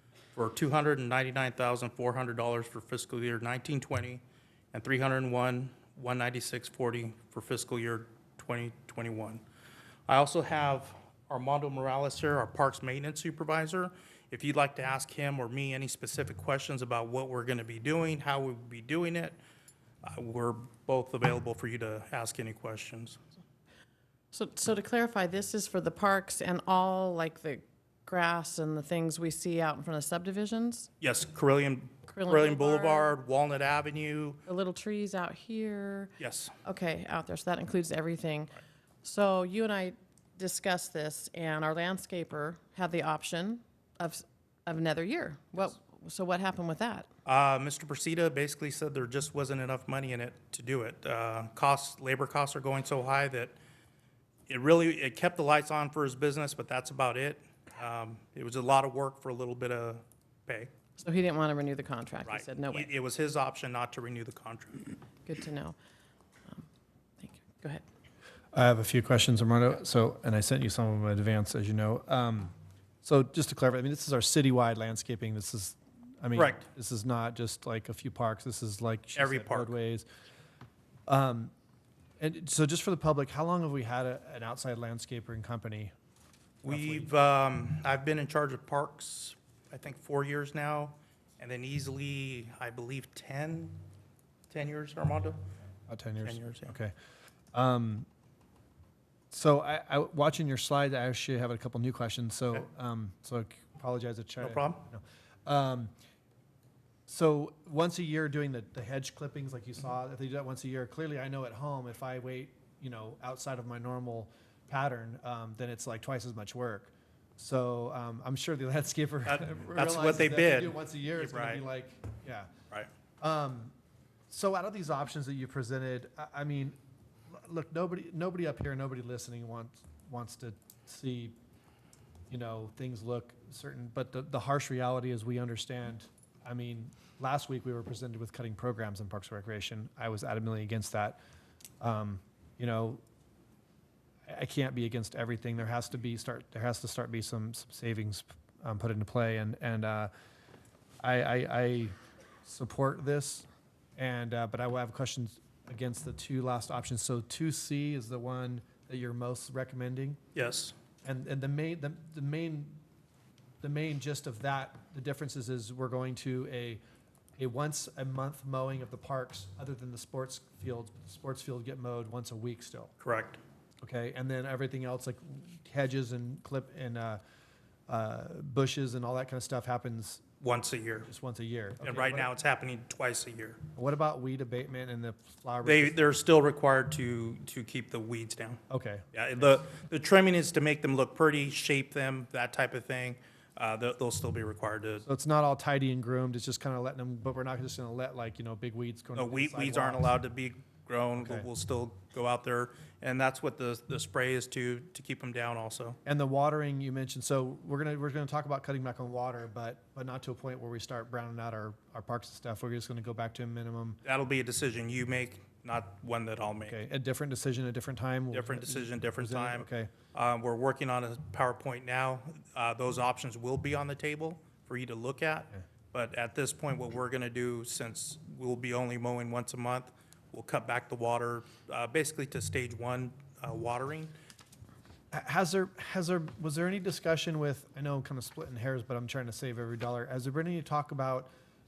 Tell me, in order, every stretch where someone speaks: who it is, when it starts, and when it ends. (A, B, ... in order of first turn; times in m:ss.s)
0:00.3-0:04.2 A
0:04.7-0:09.4 A
0:10.1-0:19.4 A
0:20.0-0:23.2 A
0:24.3-0:30.9 B
0:31.0-0:34.4 A
0:32.1-0:33.1 B
0:34.5-0:47.1 B
0:36.2-0:36.6 A
0:47.2-0:53.6 A
0:54.5-1:00.7 A
1:01.0-1:02.9 B
1:02.2-1:04.9 A
1:05.2-1:05.8 B
1:07.2-1:07.8 B
1:08.5-1:20.0 C
1:16.3-1:16.6 A
1:19.2-1:19.7 A
1:21.1-1:21.5 C
1:22.2-1:25.9 C
1:26.6-1:33.8 A
1:26.7-1:27.1 C
1:34.5-1:35.4 A
1:35.9-1:36.9 C
1:36.2-1:36.7 A
1:37.5-1:38.1 C
1:39.3-1:45.9 C
1:44.4-1:44.8 A
1:47.1-2:02.5 C
1:59.2-2:01.6 A
2:03.2-2:03.7 C
2:04.3-2:06.8 C
2:07.3-2:11.3 C
2:12.3-2:21.2 C
2:21.8-2:23.0 C
2:24.3-2:30.1 C
2:31.0-2:40.2 C
2:40.3-2:40.7 A
2:41.0-2:42.8 C
2:43.6-2:46.8 C
2:47.4-2:52.9 C
2:53.0-2:53.4 A
2:53.8-2:57.2 C
2:57.9-3:00.2 C
3:00.4-3:01.1 A
3:01.1-3:02.3 C
3:01.8-3:03.6 A
3:03.7-3:06.0 C
3:05.6-3:08.6 A
3:08.7-3:09.0 C
3:09.1-3:15.0 A
3:15.0-3:20.1 C
3:19.1-3:26.0 A
3:21.2-3:21.5 C
3:26.0-3:34.0 C
3:34.0-3:36.8 A
3:36.6-3:39.9 C
3:38.3-3:54.1 A
3:55.1-4:01.3 C